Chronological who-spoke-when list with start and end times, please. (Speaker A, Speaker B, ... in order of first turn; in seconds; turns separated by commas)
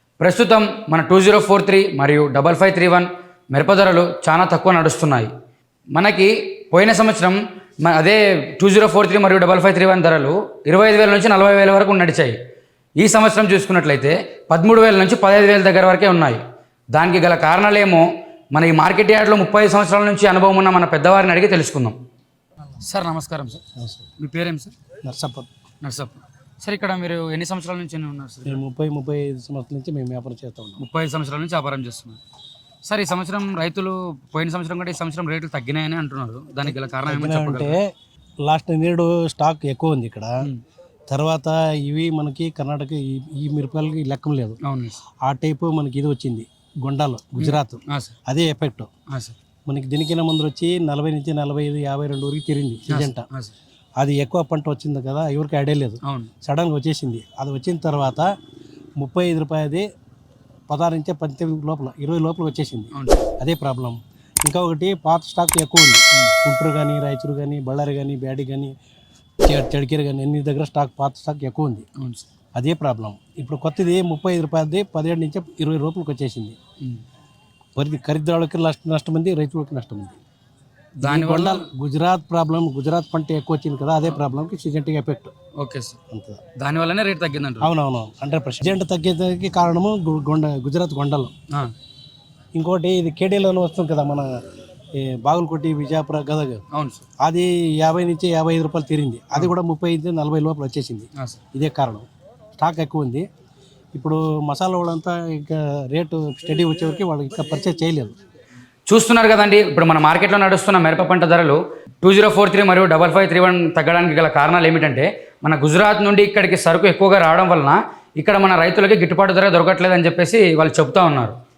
Speaker A: 0.2-5.3, Speaker A: 5.9-12.4, Speaker A: 13.0-16.4, Speaker A: 16.9-22.0, Speaker A: 22.8-23.6, Speaker B: 23.8-24.0, Speaker A: 24.2-24.7, Speaker B: 25.0-25.5, Speaker A: 25.8-28.6, Speaker B: 28.4-30.8, Speaker A: 30.8-32.2, Speaker A: 32.8-37.8, Speaker B: 36.6-37.9, Speaker B: 38.4-40.5, Speaker B: 41.1-44.6, Speaker A: 44.6-45.0, Speaker B: 45.2-48.9, Speaker A: 47.4-48.1, Speaker A: 49.1-49.4, Speaker B: 49.7-53.2, Speaker A: 52.9-53.5, Speaker B: 54.0-58.3, Speaker A: 56.0-56.3, Speaker B: 59.0-59.8, Speaker B: 60.7-68.7, Speaker A: 62.9-63.2, Speaker B: 69.4-71.8, Speaker A: 72.0-72.2, Speaker B: 72.5-76.5, Speaker B: 77.8-80.2, Speaker A: 81.0-81.7, Speaker B: 81.0-85.3, Speaker A: 85.6-86.0, Speaker B: 86.1-86.4, Speaker A: 86.6-87.7, Speaker B: 87.6-91.3, Speaker B: 92.5-94.3, Speaker B: 95.0-96.6, Speaker A: 96.7-97.0, Speaker B: 97.2-103.2, Speaker B: 103.9-108.2, Speaker A: 108.9-121.4